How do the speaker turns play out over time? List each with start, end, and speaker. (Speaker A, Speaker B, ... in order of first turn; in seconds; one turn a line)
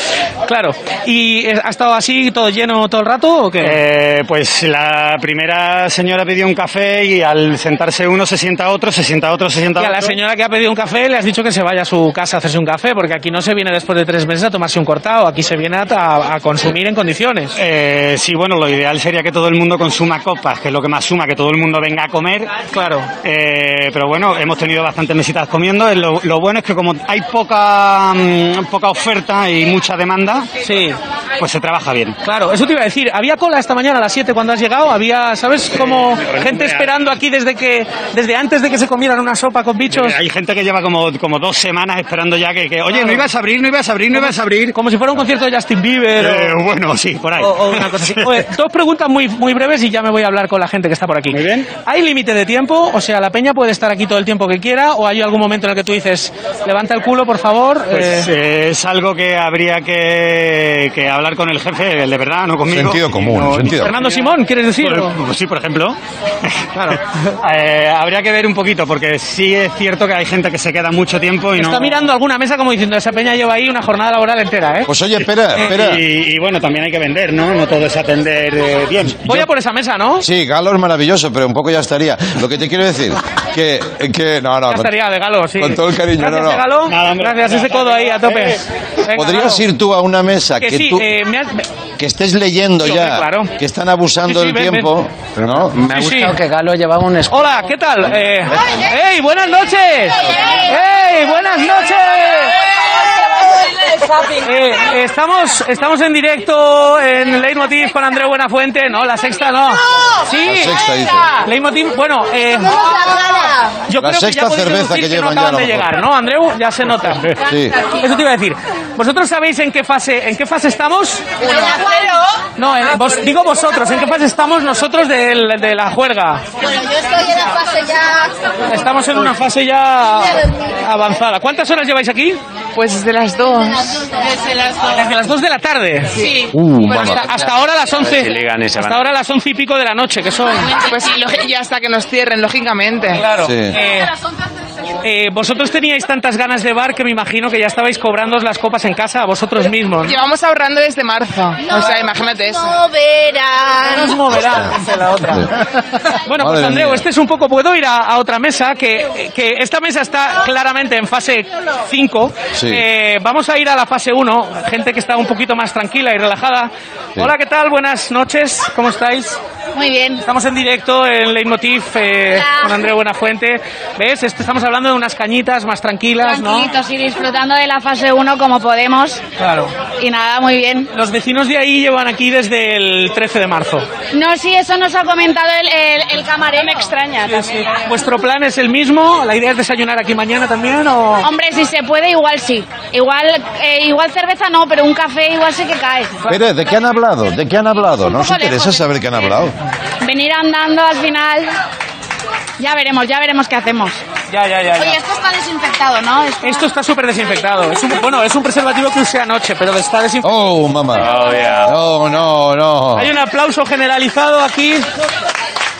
Speaker A: 0.4-3.8
Speaker B: 3.6-10.2
Speaker A: 9.7-17.6
Speaker B: 17.6-30.5
Speaker A: 30.6-31.0
Speaker B: 31.4-32.2
Speaker A: 32.2-40.2
Speaker B: 35.8-36.9
Speaker B: 39.9-44.8
Speaker A: 42.9-43.3
Speaker A: 44.1-46.6
Speaker B: 46.2-48.5
Speaker A: 47.4-58.3
Speaker B: 51.3-51.7
Speaker B: 57.9-66.0
Speaker C: 62.7-64.0
Speaker A: 63.7-65.2
Speaker B: 67.2-72.0
Speaker A: 71.5-74.9
Speaker C: 74.9-76.0
Speaker B: 75.7-79.2
Speaker A: 79.2-80.2
Speaker C: 80.2-85.0
Speaker A: 84.7-89.6
Speaker C: 85.5-86.7
Speaker B: 86.9-88.3
Speaker C: 89.1-91.1
Speaker A: 90.6-91.7
Speaker C: 92.0-95.8
Speaker A: 92.8-93.5
Speaker A: 94.2-94.9
Speaker D: 95.4-97.5
Speaker A: 95.8-96.3
Speaker A: 97.3-102.7
Speaker A: 104.4-110.8
Speaker C: 110.4-111.3
Speaker A: 111.4-113.0
Speaker A: 113.9-121.3
Speaker C: 114.0-115.9
Speaker C: 117.4-117.8
Speaker A: 122.5-126.4
Speaker A: 128.7-132.4
Speaker E: 132.7-134.0
Speaker A: 134.6-136.2
Speaker C: 136.5-137.3
Speaker A: 136.8-140.8
Speaker D: 138.0-139.0
Speaker E: 140.7-143.2
Speaker A: 143.1-144.1
Speaker C: 143.4-143.8
Speaker A: 145.0-150.2
Speaker E: 150.0-153.3
Speaker A: 153.8-155.5
Speaker C: 155.2-155.5
Speaker A: 156.2-169.4
Speaker C: 156.4-157.1
Speaker C: 162.5-162.8
Speaker F: 169.7-170.2
Speaker A: 170.2-176.7
Speaker F: 172.3-172.8
Speaker F: 176.2-179.2
Speaker A: 179.4-179.7
Speaker F: 179.8-180.9
Speaker A: 180.9-183.8
Speaker F: 184.1-187.7
Speaker A: 187.3-191.2
Speaker F: 191.2-196.2
Speaker C: 196.3-199.5
Speaker F: 198.2-198.8
Speaker F: 200.0-201.5
Speaker F: 202.6-204.0
Speaker A: 204.3-205.0
Speaker F: 204.7-206.6
Speaker A: 206.4-210.3
Speaker C: 210.2-211.1
Speaker A: 211.0-211.7
Speaker C: 211.6-213.1
Speaker A: 212.9-214.9